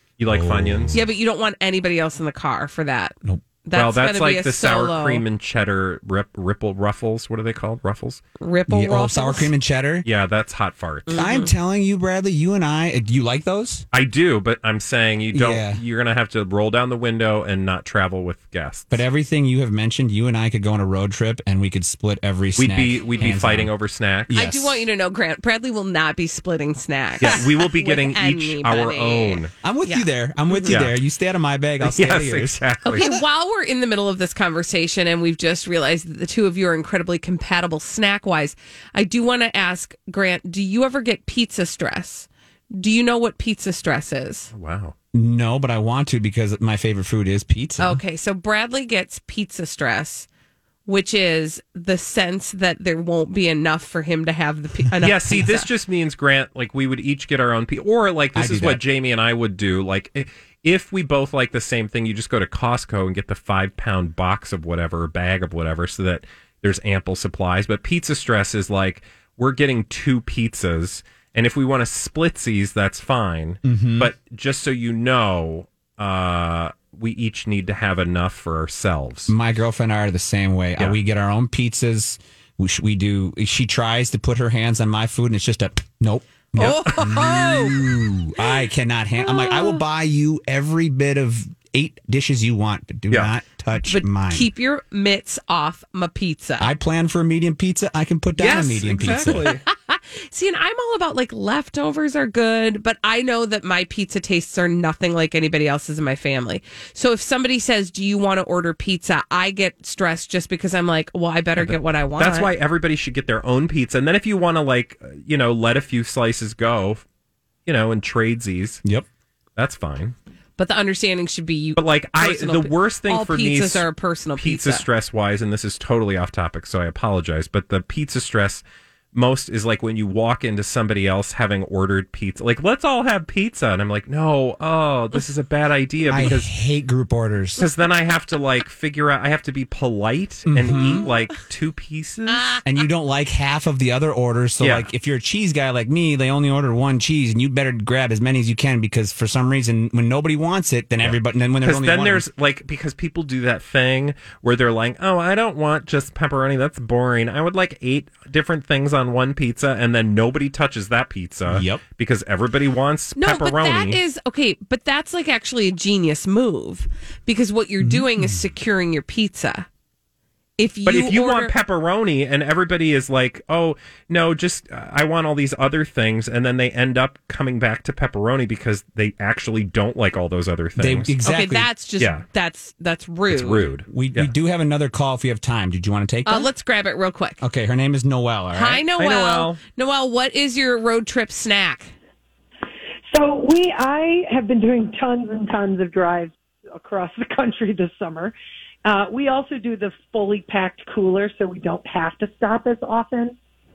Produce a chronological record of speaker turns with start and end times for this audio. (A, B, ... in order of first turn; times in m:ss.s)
0:00.2-0:01.0 A
0:00.2-0:01.0 B
0:00.9-0:05.2 C
0:03.7-0:08.2 A
0:08.4-0:09.5 C
0:08.7-0:10.1 B
0:10.0-0:11.2 A
0:11.1-0:11.5 C
0:11.1-0:13.8 B
0:13.9-0:19.0 A
0:15.3-0:15.8 B
0:18.9-0:23.7 B
0:22.6-0:24.4 A
0:24.3-0:24.8 B
0:24.3-0:30.8 C
0:27.2-0:29.5 A
0:29.6-0:33.2 B
0:31.8-0:33.1 A
0:32.8-0:44.5 C
0:44.5-0:44.9 A
0:45.1-0:48.0 B
0:47.8-0:50.3 C
0:50.8-0:55.7 C
0:55.0-1:19.3 A
0:58.3-0:58.8 B
1:13.6-1:14.1 B
1:19.3-1:34.5 B
1:26.6-1:27.8 C
1:26.6-1:26.9 A
1:29.2-1:29.8 C
1:33.8-1:36.7 C
1:36.6-1:39.6 B
1:38.4-1:39.6 A
1:38.5-1:52.5 C
1:51.6-1:57.0 A
1:57.6-1:58.8 A
1:59.6-2:00.2 A
2:00.6-2:04.8 C
2:01.8-2:03.8 A
2:04.4-2:08.6 A
2:09.1-2:16.5 A
2:16.0-2:17.6 B
2:17.6-2:22.5 A
2:20.5-2:21.1 B
2:20.7-2:21.0 C
2:22.3-2:22.6 C
2:22.6-2:32.2 B
2:24.6-2:24.9 A
2:31.0-2:44.0 A
2:41.5-2:41.8 B
2:43.2-2:49.7 C
2:47.8-2:48.4 B
2:50.6-2:51.5 C
2:50.8-3:01.1 A
3:00.8-3:01.7 B
3:01.2-3:03.6 C
3:02.0-3:02.2 A
3:03.3-3:04.3 A
3:03.9-3:06.5 B
3:06.2-3:07.4 C
3:07.4-3:08.8 B
3:08.5-3:11.9 C
3:09.0-3:09.6 A
3:13.1-3:18.3 D
3:18.8-3:23.4 D